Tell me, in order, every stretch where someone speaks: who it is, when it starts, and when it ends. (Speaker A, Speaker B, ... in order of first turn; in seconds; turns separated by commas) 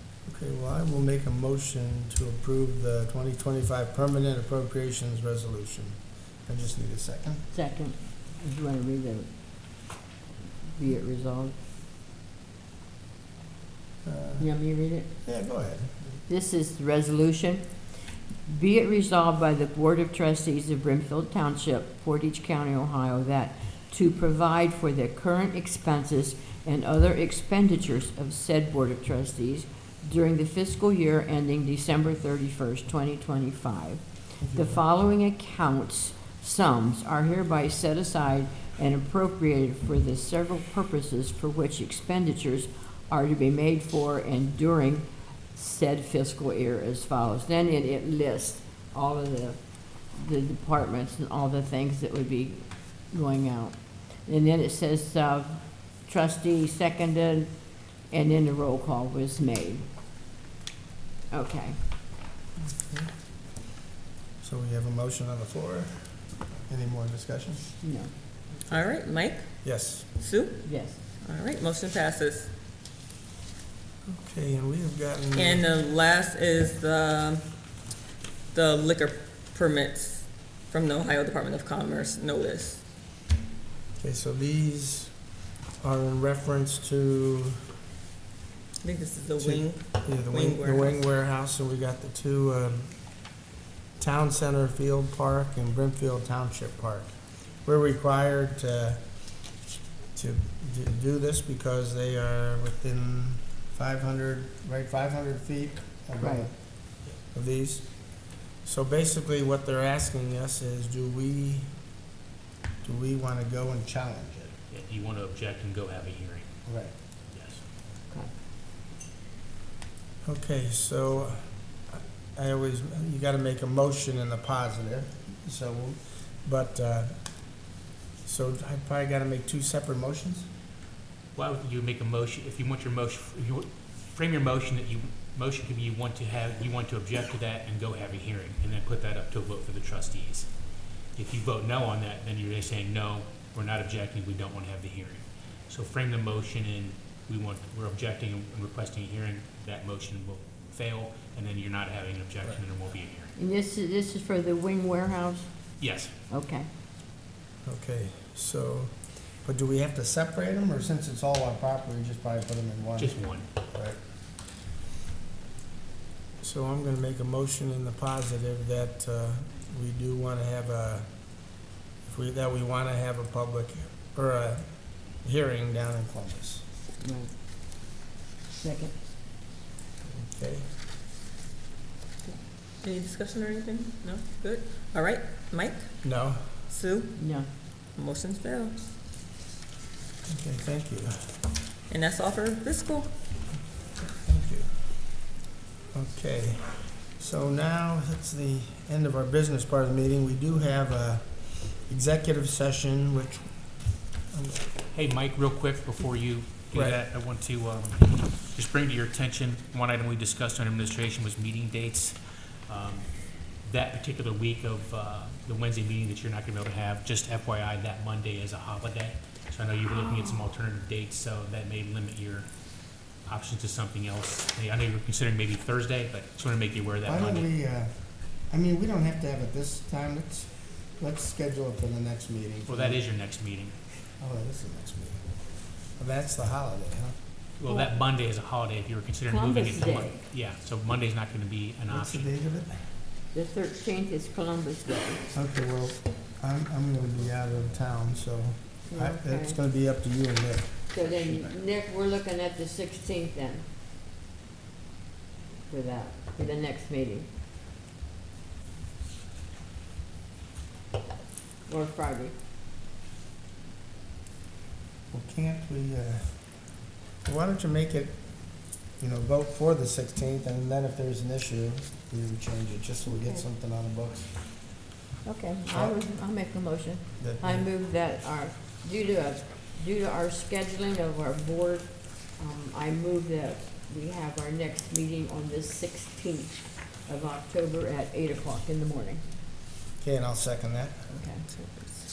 Speaker A: 0.2-7.4, Speaker B: 7.5-9.3, Speaker B: 10.7-11.6, Speaker A: 14.0-14.5, Speaker B: 14.4-15.1, Speaker A: 15.2-16.2, Speaker B: 16.3-17.6, Speaker B: 18.4-49.6, Speaker A: 34.4-34.8, Speaker B: 50.1-57.5, Speaker B: 58.1-59.9, Speaker B: 61.3-61.8, Speaker A: 62.8-63.1, Speaker A: 64.4-66.1, Speaker A: 66.7-67.6, Speaker B: 67.8-68.1, Speaker C: 68.7-69.5, Speaker A: 69.6-70.1, Speaker C: 70.2-70.7, Speaker B: 70.6-71.0, Speaker C: 71.2-72.5, Speaker A: 74.1-75.6, Speaker C: 75.3-77.4, Speaker C: 78.5-82.8, Speaker A: 84.0-85.1, Speaker A: 85.8-87.6, Speaker C: 88.8-91.0, Speaker A: 89.4-92.9, Speaker A: 94.0-97.1, Speaker A: 97.6-99.0, Speaker A: 100.1-106.5, Speaker B: 106.2-106.5, Speaker A: 107.3-107.9, Speaker A: 108.6-111.7, Speaker A: 112.8-114.5, Speaker D: 114.7-116.5, Speaker A: 116.7-116.9, Speaker D: 117.3-117.6, Speaker A: 120.2-127.1, Speaker A: 128.2-130.5, Speaker D: 131.3-140.5, Speaker D: 141.2-153.3, Speaker B: 153.3-155.5, Speaker D: 155.8-156.1, Speaker B: 156.3-156.7, Speaker A: 157.6-164.0, Speaker D: 163.0-163.5, Speaker A: 166.4-171.1, Speaker A: 172.0-174.6, Speaker A: 175.2-176.6, Speaker B: 177.0-177.3, Speaker B: 178.6-178.9, Speaker A: 180.1-180.7, Speaker C: 182.2-185.8, Speaker A: 186.0-186.4, Speaker C: 186.7-187.1, Speaker B: 187.2-187.5, Speaker C: 187.9-188.8, Speaker A: 190.2-191.3, Speaker C: 191.9-193.1, Speaker A: 194.0-194.7, Speaker A: 195.9-203.5, Speaker A: 204.3-204.7, Speaker D: 204.9-212.2, Speaker A: 206.7-207.0, Speaker D: 212.7-222.5, Speaker D: 223.2-227.4, Speaker A: 227.0-233.0, Speaker D: 232.7-233.7, Speaker A: 234.2-235.2, Speaker A: 235.9-237.2, Speaker D: 237.6-242.3, Speaker B: 237.7-237.9, Speaker B: 239.3-240.2, Speaker A: 241.9-242.8, Speaker B: 243.3-245.2, Speaker A: 245.3-250.9, Speaker B: 248.9-249.6, Speaker B: 250.9-253.6, Speaker B: 255.7-257.3, Speaker B: 261.6-262.3, Speaker A: 265.1-266.4, Speaker A: 267.2-268.2, Speaker A: 269.0-274.3, Speaker B: 273.1-273.4, Speaker B: 275.2-289.2, Speaker A: 275.7-275.9, Speaker A: 277.2-277.7, Speaker A: 290.0-291.1, Speaker B: 291.1-291.5, Speaker C: 291.5-292.0